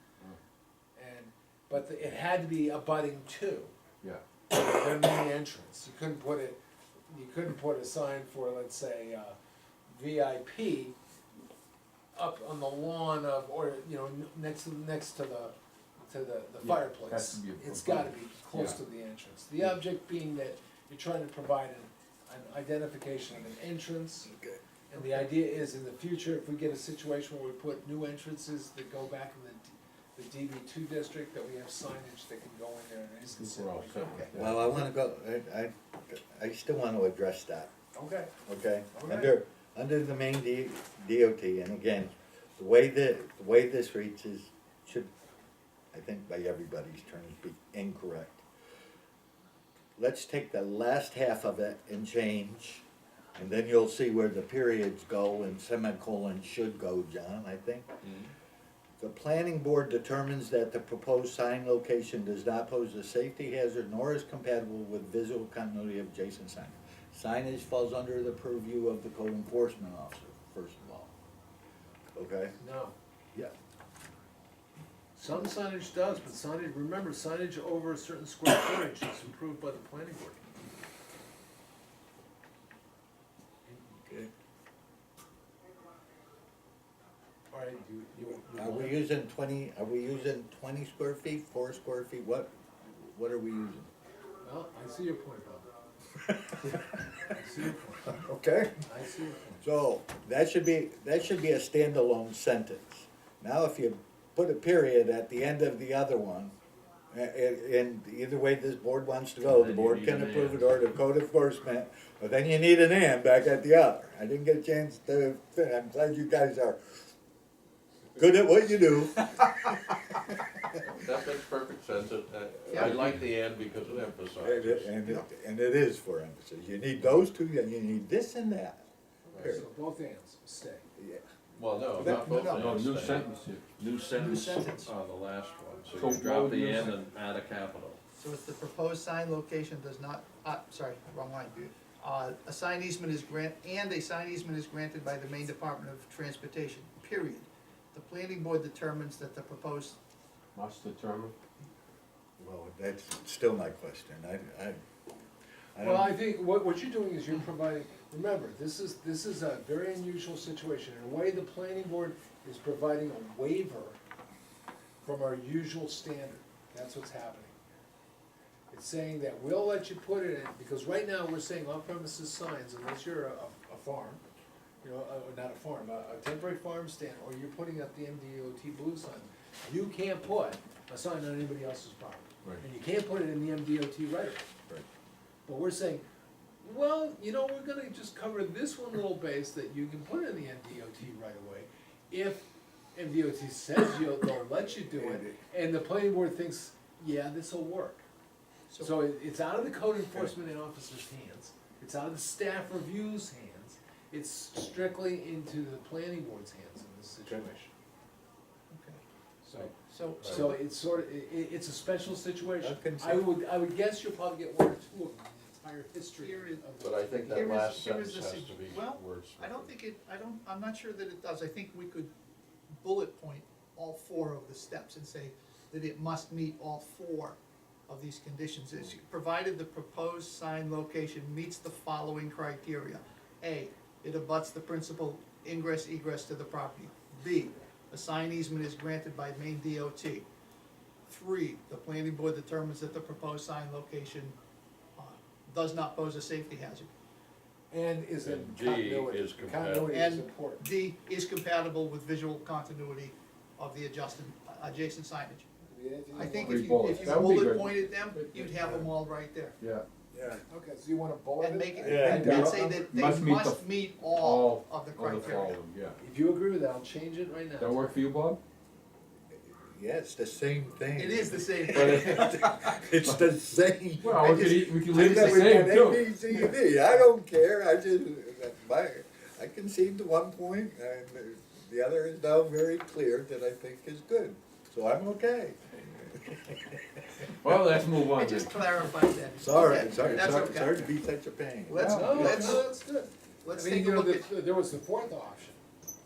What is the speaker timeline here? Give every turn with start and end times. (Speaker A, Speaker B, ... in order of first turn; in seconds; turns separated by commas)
Speaker A: 0.9-3.7, Speaker A: 4.5-9.3, Speaker A: 9.9-11.0, Speaker A: 12.1-24.3, Speaker B: 16.6-18.8, Speaker A: 24.9-34.8, Speaker C: 33.4-34.6, Speaker D: 34.3-37.7, Speaker A: 37.9-38.3, Speaker D: 38.5-45.1, Speaker A: 38.9-39.4, Speaker D: 45.9-48.4, Speaker D: 50.0-52.8, Speaker D: 53.4-58.0, Speaker C: 58.0-58.3, Speaker D: 59.0-71.1, Speaker D: 72.2-72.6, Speaker A: 72.6-73.0, Speaker A: 75.1-80.4, Speaker D: 83.8-84.3, Speaker A: 87.5-89.0, Speaker D: 88.5-93.9, Speaker A: 94.4-95.7, Speaker A: 97.3-98.2, Speaker D: 98.1-98.8, Speaker A: 98.8-99.6, Speaker D: 99.6-106.5, Speaker D: 107.1-117.0, Speaker C: 109.4-110.8, Speaker D: 118.2-120.2, Speaker C: 120.8-124.9, Speaker E: 122.7-123.0, Speaker D: 124.4-129.7, Speaker C: 129.3-129.6, Speaker A: 129.4-130.8, Speaker D: 131.0-131.3, Speaker C: 131.6-133.2, Speaker D: 131.9-132.8, Speaker B: 132.0-133.8, Speaker C: 133.8-138.0, Speaker A: 134.2-134.9, Speaker B: 135.9-137.0, Speaker E: 138.2-150.0, Speaker B: 150.5-151.3, Speaker D: 152.4-154.8, Speaker D: 155.7-156.2, Speaker A: 155.8-164.0, Speaker A: 165.0-167.6, Speaker A: 168.7-174.2, Speaker A: 174.8-184.5, Speaker A: 185.4-186.0, Speaker A: 186.6-198.0, Speaker D: 194.9-195.3, Speaker A: 198.8-207.7, Speaker E: 208.7-209.0, Speaker A: 209.4-217.8, Speaker E: 209.8-210.6, Speaker C: 210.2-210.5, Speaker D: 212.6-213.3, Speaker E: 216.2-216.6, Speaker C: 216.8-219.7, Speaker E: 217.3-222.1, Speaker E: 222.8-240.2, Speaker E: 241.1-244.3, Speaker E: 244.9-246.9, Speaker A: 247.7-250.7, Speaker C: 248.2-249.9, Speaker E: 249.9-255.5, Speaker A: 255.7-257.4, Speaker E: 256.1-259.6, Speaker B: 256.3-257.8, Speaker B: 259.6-259.8, Speaker A: 260.3-262.6, Speaker E: 261.4-265.6, Speaker D: 261.8-262.5, Speaker B: 262.0-266.0, Speaker A: 266.0-267.8, Speaker B: 267.6-268.4, Speaker D: 269.4-287.0, Speaker E: 271.0-272.6, Speaker B: 271.7-272.5, Speaker B: 274.0-276.4, Speaker B: 287.3-288.6, Speaker E: 287.9-290.8, Speaker D: 289.4-292.6, Speaker B: 289.9-290.5, Speaker E: 291.7-292.7, Speaker A: 291.9-295.6, Speaker E: 293.4-294.3